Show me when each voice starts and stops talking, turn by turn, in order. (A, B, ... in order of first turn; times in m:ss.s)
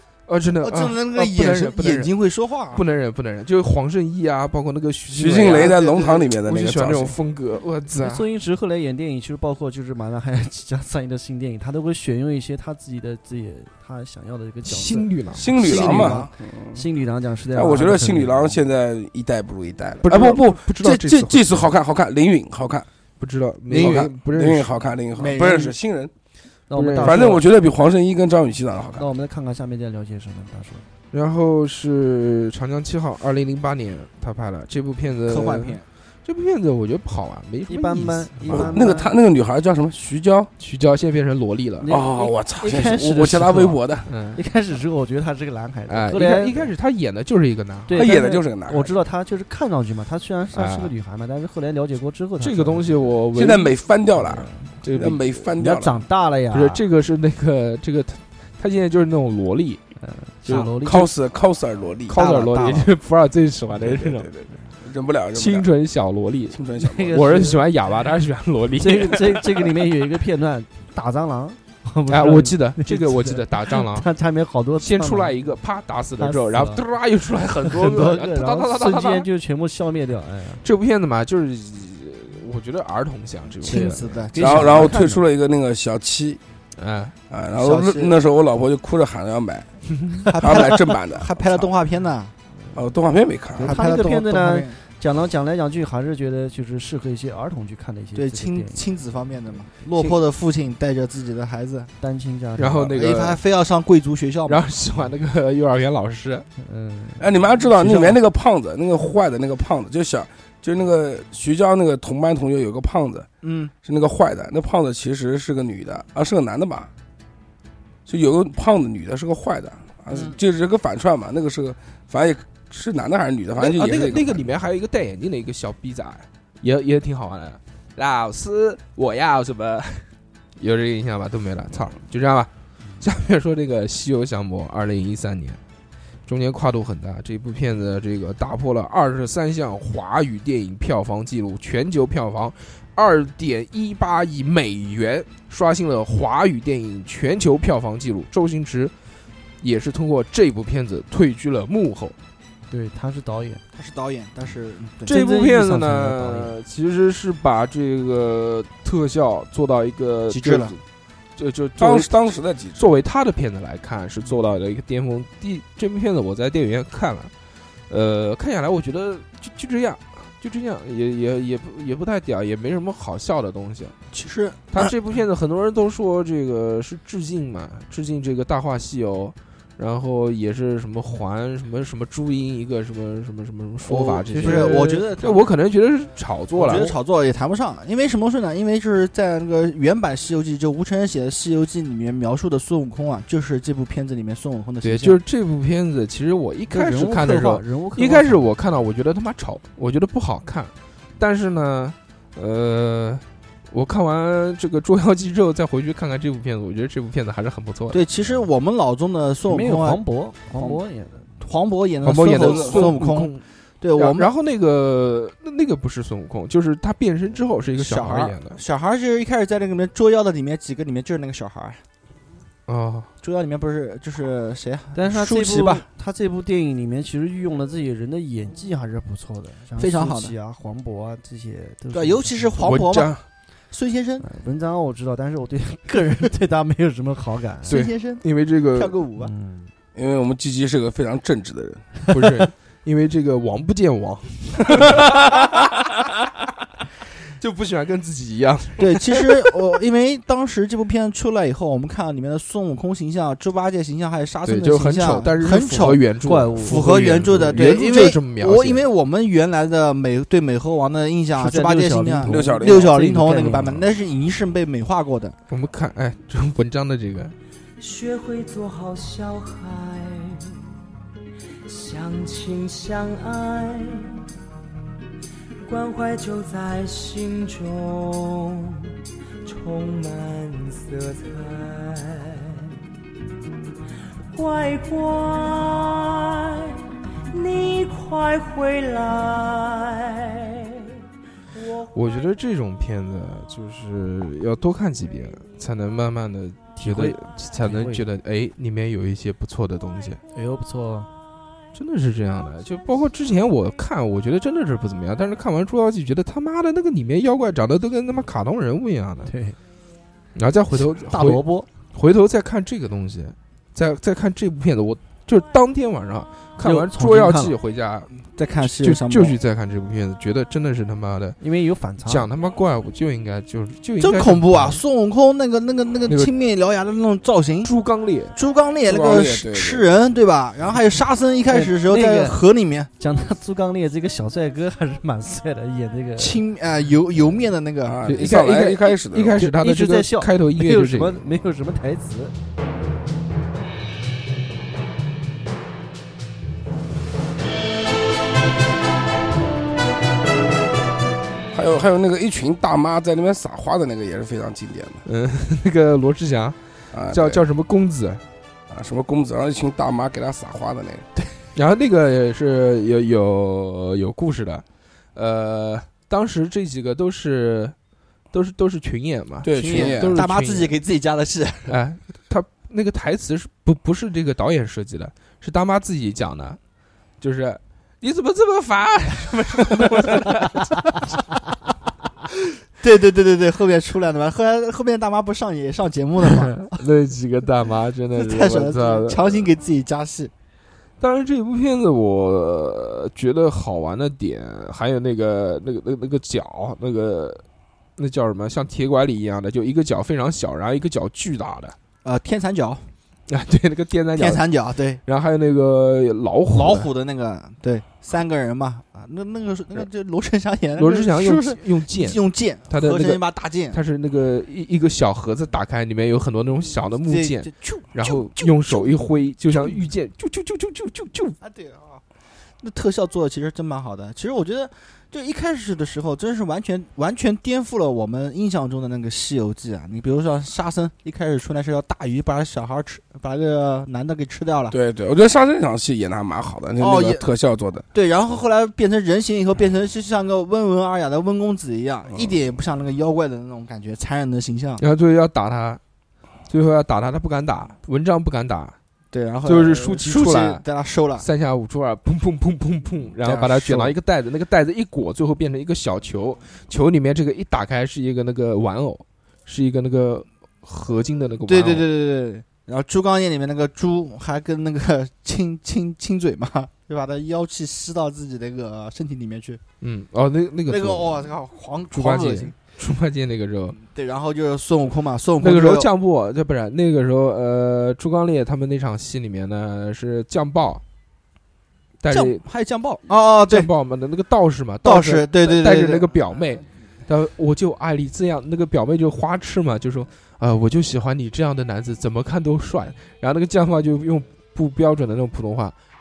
0:00.3-0:02.1 A
0:00.6-0:02.8 B
0:02.7-0:05.8 A
0:05.1-0:07.2 C
0:05.4-0:06.3 B
0:06.4-0:08.3 A
0:08.0-0:15.1 D
0:14.6-0:15.6 A
0:15.4-0:16.8 C
0:15.5-0:16.3 B
0:15.7-0:18.6 D
0:17.5-0:22.9 C
0:20.0-0:21.7 A
0:23.2-0:24.7 A
0:23.7-0:26.1 C
0:25.2-0:25.8 B
0:26.7-0:27.5 D
0:26.7-0:27.4 A
0:27.0-0:29.1 C
0:29.0-0:30.8 D
0:31.1-0:38.8 A
0:35.3-0:35.8 B
0:37.7-0:39.1 D
0:38.5-0:40.5 C
0:40.6-0:42.0 A
0:41.8-0:43.8 D
0:41.9-0:44.1 C
0:44.1-0:44.4 A
0:44.3-0:46.7 D
0:45.9-0:48.0 A
0:47.9-0:53.0 D
0:47.9-0:48.9 C
0:50.5-0:50.9 A
0:52.4-0:53.8 A
0:53.3-0:56.0 C
0:54.2-0:54.7 D
0:54.8-0:55.3 A
0:55.6-0:56.8 D
0:56.5-0:59.8 A
1:00.0-1:01.1 D
1:00.4-1:00.8 A
1:00.8-1:02.2 C
1:02.1-1:04.3 A
1:02.1-1:02.9 B
1:03.8-1:05.7 C
1:05.3-1:09.4 A
1:06.5-1:07.2 C
1:06.8-1:07.6 D
1:08.8-1:15.5 D
1:12.1-1:14.1 A
1:14.8-1:19.3 A
1:16.2-1:16.8 D
1:17.6-1:20.6 D
1:20.6-1:24.6 A
1:23.6-1:25.0 B
1:23.7-1:24.0 D
1:24.4-1:26.4 C
1:24.6-1:25.2 D
1:26.8-1:27.2 A
1:27.3-1:29.7 C
1:27.6-1:28.1 B
1:30.3-1:32.3 B
1:30.4-1:31.7 C
1:32.7-1:33.8 C
1:33.6-1:38.8 D
1:33.6-1:34.8 B
1:38.2-1:41.9 B
1:42.0-1:42.9 D
1:42.6-1:43.4 A
1:42.8-1:44.6 B
1:44.5-1:46.5 A
1:46.6-1:48.1 D
1:47.2-1:53.3 C
1:53.4-1:53.7 B
1:53.8-1:56.9 C
1:58.1-2:04.4 C
2:00.1-2:00.4 B
2:03.6-2:15.6 A
2:16.3-2:28.9 A
2:29.6-2:32.2 A
2:32.7-2:33.6 D
2:33.7-2:35.1 B
2:35.1-2:36.5 D
2:35.1-2:40.8 A
2:40.3-2:40.8 B
2:41.4-2:42.1 A
2:41.8-2:42.8 C
2:42.8-2:47.3 A
2:47.9-2:54.0 A
2:54.1-2:54.9 B
2:54.7-3:07.0 A
3:03.9-3:05.4 B
3:04.3-3:05.0 D
3:06.6-3:15.2 B
3:14.8-3:28.0 A
3:16.7-3:18.5 D
3:27.9-3:30.0 B
3:29.5-3:31.3 D
3:30.5-3:30.8 B
3:31.4-3:34.3 B
3:32.0-3:38.6 A
3:32.4-3:32.8 C
3:37.8-3:41.8 B
3:42.7-3:43.1 A
3:43.2-3:45.9 B
3:45.0-3:52.5 D
3:49.8-3:50.3 B
3:51.9-3:53.2 B
3:52.6-3:53.2 A
3:53.7-3:54.3 B
3:54.2-3:57.8 D
3:57.7-3:59.3 B
3:57.7-3:59.0 A
3:59.2-3:59.7 D
4:00.0-4:01.9 C
4:02.1-4:05.9 A
4:07.4-4:09.5 A
4:08.8-4:16.0 B
4:14.4-4:18.8 A
4:16.2-4:17.8 D
4:16.6-4:25.4 B
4:21.4-4:23.8 D
4:22.3-4:22.9 C
4:25.5-4:27.4 A
4:27.8-4:30.6 E
4:31.6-4:34.2 E
4:35.6-4:38.9 E
4:39.4-4:42.8 E
4:44.3-4:51.0 E
4:51.6-4:51.8 E
4:51.9-5:00.2 A
4:56.8-4:58.0 D
5:00.3-5:01.1 D
5:01.7-5:09.3 A
5:09.3-5:09.6 D
5:10.4-5:21.4 A
5:10.7-5:11.7 D
5:16.6-5:17.6 D
5:18.3-5:19.4 B
5:21.4-5:22.3 D
5:22.0-5:24.8 A
5:24.0-5:27.7 B
5:26.1-5:26.3 A
5:27.6-5:28.4 A
5:28.4-5:32.9 B
5:28.9-5:29.9 C
5:31.5-5:32.4 D
5:33.0-5:36.4 D
5:36.2-5:38.0 B
5:37.8-5:39.4 C
5:38.0-5:41.2 A
5:39.4-5:42.3 D
5:51.5-5:55.0 C
5:55.0-5:58.2 A
5:56.9-5:57.4 C
5:58.7-6:01.1 C
6:01.6-6:07.8 A
6:08.3-6:10.8 A
6:09.4-6:10.2 C
6:09.6-6:11.8 B
6:11.7-6:16.6 A
6:17.2-6:21.2 A
6:22.8-6:26.8 B
6:26.7-6:29.5 A
6:28.2-6:30.3 B
6:31.0-6:37.4 A
6:38.0-6:41.8 A
6:42.0-6:42.9 B
6:43.3-6:44.4 A
6:44.2-6:45.0 B
6:45.0-6:46.9 A
6:46.5-6:53.8 B
6:50.8-7:01.4 A
6:57.0-6:58.9 B
6:59.5-6:59.8 B
7:01.4-7:02.0 B
7:02.6-7:14.8 B
7:14.7-7:17.9 C
7:16.8-7:17.2 B
7:17.9-7:24.8 B
7:22.1-7:22.4 C
7:24.8-7:25.8 A
7:26.5-7:28.8 A
7:29.1-7:31.3 B
7:29.4-7:30.6 A
7:31.2-7:41.9 A
7:33.2-7:33.9 B
7:41.5-7:49.6 B
7:49.8-7:51.3 A
7:50.7-7:52.5 B
7:51.9-7:53.8 A
7:53.8-7:55.9 B
7:55.4-8:00.8 A
8:02.0-8:02.4 A
8:02.1-8:03.7 B
8:03.1-8:15.8 A
8:04.8-8:06.2 B